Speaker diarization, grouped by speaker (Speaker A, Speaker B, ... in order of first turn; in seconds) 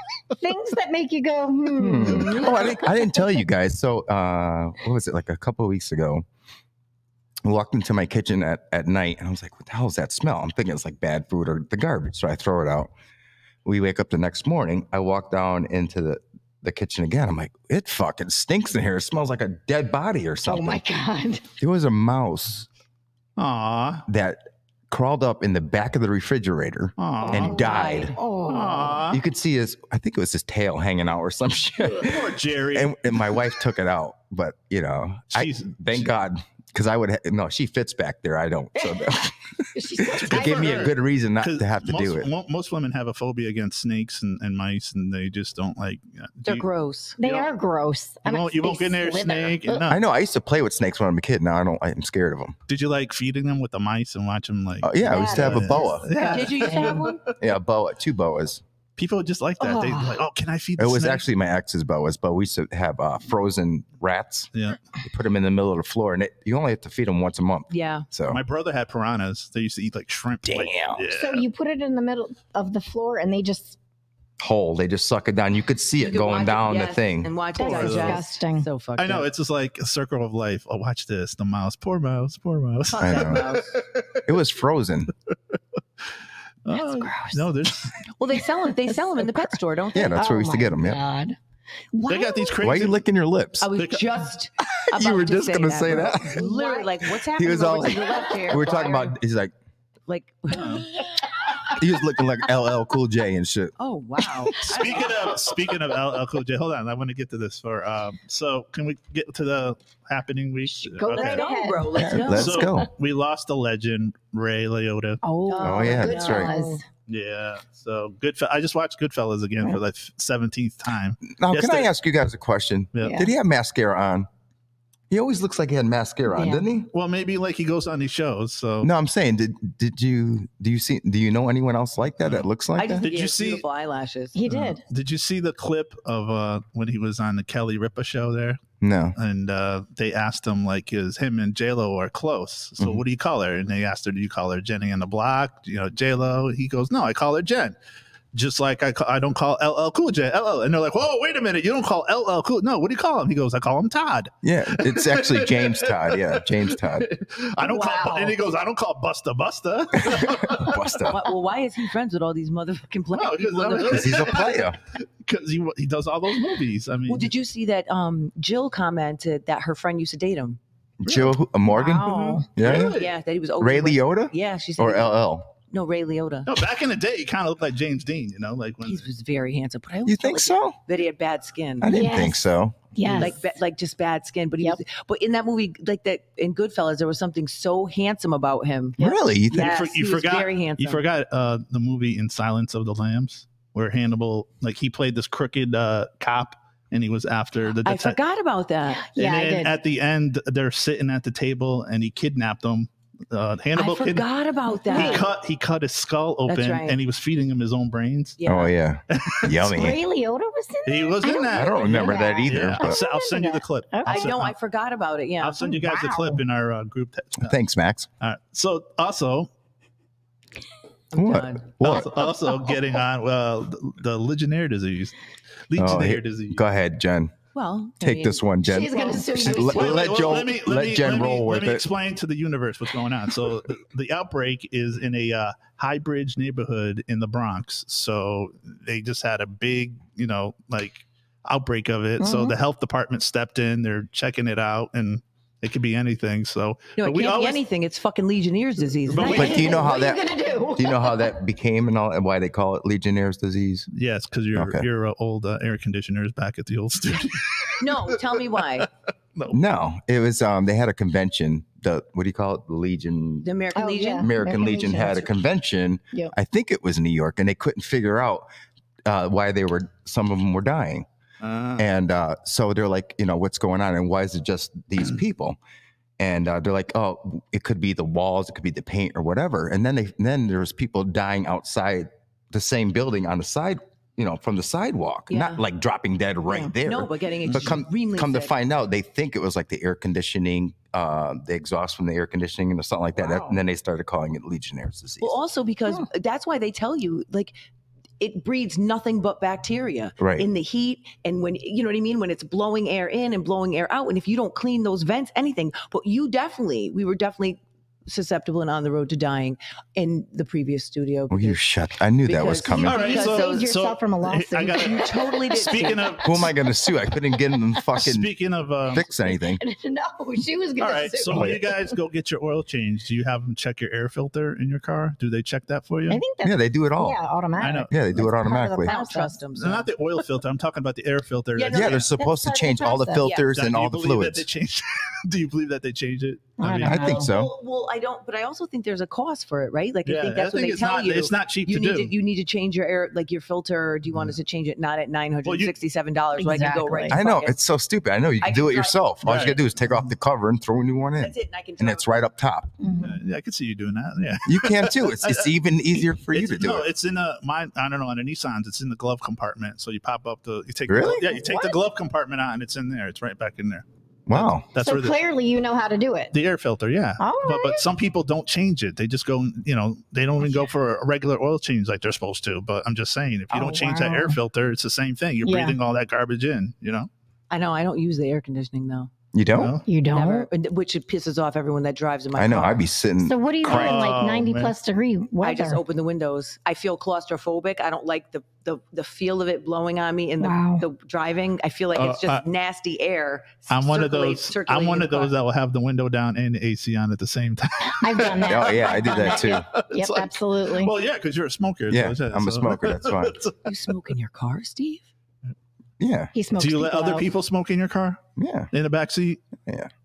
Speaker A: 0.3-3.0, 20.4-21.4, 27.2-29.0, 38.9-39.2, 39.7-40.9, 47.2-49.8, 55.0-57.1, 59.6-60.2, 71.1-73.8, 77.5-78.7, 86.7-87.5, 90.1-91.4, 96.2-96.9, 110.7-112.5, 115.2-116.8, 123.0-123.3, 126.3-126.6, 134.3-134.8, 171.7-172.5, 181.8-182.4, 182.9-183.4, 199.0-199.7, 204.9-205.3, 209.7-214.3, 215.6-216.4, 228.6-230.3, 242.2-242.6, 249.2-251.3, 263.7-265.3, 312.8-316.4, 319.2-321.9, 326.1-329.4, 332.2-333.3, 336.6-337.3, 346.4-347.2, 352.8-353.2, 361.1-361.8, 364.8-366.3, 367.2-367.8, 373.5-374.4, 375.4-375.8, 379.9-380.5, 383.2-385.8, 390.4-390.8, 397.9-400.9, 406.3-407.3
Speaker B: 1.8-6.2, 7.4-12.9, 13.6-20.8, 21.6-22.7, 24.1-28.1, 29.1-42.3, 49.9-52.5, 54.8-56.0, 57.4-58.6, 60.8-64.5, 65.0-68.4, 70.4-71.0, 74.4-77.3, 83.0-83.5, 84.2-85.1, 89.9-91.0, 92.6-93.7, 94.8-96.4, 97.2-99.5, 101.7-103.7, 111.9-112.9, 115.6-116.5, 121.2-124.3, 125.1-126.9, 128.8-133.1, 138.8-139.2, 142.8-143.0, 154.4-157.1, 160.0-161.2, 163.8-164.8, 171.0-173.0, 173.6-175.4, 180.1-180.8, 181.8-183.2, 189.0-189.7, 208.4-210.0, 211.5-213.0, 217.4-218.1, 221.2-222.1, 225.8-227.3, 228.0-231.8, 249.2-253.9, 254.5-254.8, 259.5-263.5, 264.2-268.4, 269.0-271.1, 271.8-275.6, 276.2-295.4, 300.2-300.4, 311.3-313.1, 316.2-318.3, 318.9-319.6, 321.3-321.6, 326.4-327.2, 327.9-328.9, 331.7-334.4, 336.7-337.5, 347.1-352.7, 354.4-356.9, 360.9-361.3, 364.3-364.6, 379.3-379.8, 382.3-384.0, 398.4-399.7, 401.9-403.4, 406.0-406.3, 408.4-408.7
Speaker C: 23.4-24.0, 27.0-27.6, 28.4-29.2, 31.9-33.0, 35.3-36.1, 40.1-46.6, 47.2-47.5, 48.2-50.0, 52.7-57.4, 59.0-61.2, 68.3-71.5, 77.6-78.2, 79.0-84.2, 86.6-88.0, 92.1-93.0, 93.8-94.2, 104.6-111.5, 112.3-115.2, 117.1-121.9, 122.9-123.2, 126.9-128.9, 133.0-133.6, 134.4-138.6, 139.2-147.8, 148.3-161.0, 163.1-167.3, 172.6-173.1, 176.4-179.0, 189.5-198.2, 199.2-204.3, 204.9-208.4, 209.1-209.8, 210.8-214.5, 215.4-217.6, 218.2-219.5, 221.8-225.2, 225.7-226.6, 229.4-247.6, 249.1-249.7, 253.9-258.4, 271.4-271.8, 312.8-316.5, 317.9-319.0, 320.8-326.2, 327.6-327.9, 329.6-332.1, 333.5-337.1, 340.0-342.1, 345.4-345.7, 349.2-349.6, 352.9-355.5, 356.2-365.2, 366.3-377.1, 379.5-379.8, 383.6-384.7, 391.9-392.4, 393.7-403.6, 406.6-408.2, 408.7-409.4
Speaker D: 27.4-28.1, 46.4-47.2, 56.2-57.2, 67.7-68.0, 76.0-79.3, 82.9-83.8, 88.2-90.4, 91.9-92.5, 93.6-99.2, 100.1-101.0, 103.8-105.4, 111.1-112.7, 115.5-116.8, 132.8-134.4, 157.6-158.4, 161.1-164.4, 167.1-170.6, 172.0-176.5, 178.8-181.9, 183.1-191.0, 197.8-199.1, 203.8-205.3, 206.5-207.0, 208.4-208.7, 214.0-215.7, 221.1-221.8, 227.5-229.4, 247.0-249.9, 257.8-258.9, 263.4-264.8, 285.3-285.6, 286.8-288.5, 295.2-297.5, 298.2-311.6, 312.2-313.7, 314.7-316.1, 328.8-329.9, 331.5-332.1, 337.0-347.6, 348.4-349.0, 351.2-352.2, 377.5-379.1, 380.1-382.8, 385.4-395.3, 403.6-405.0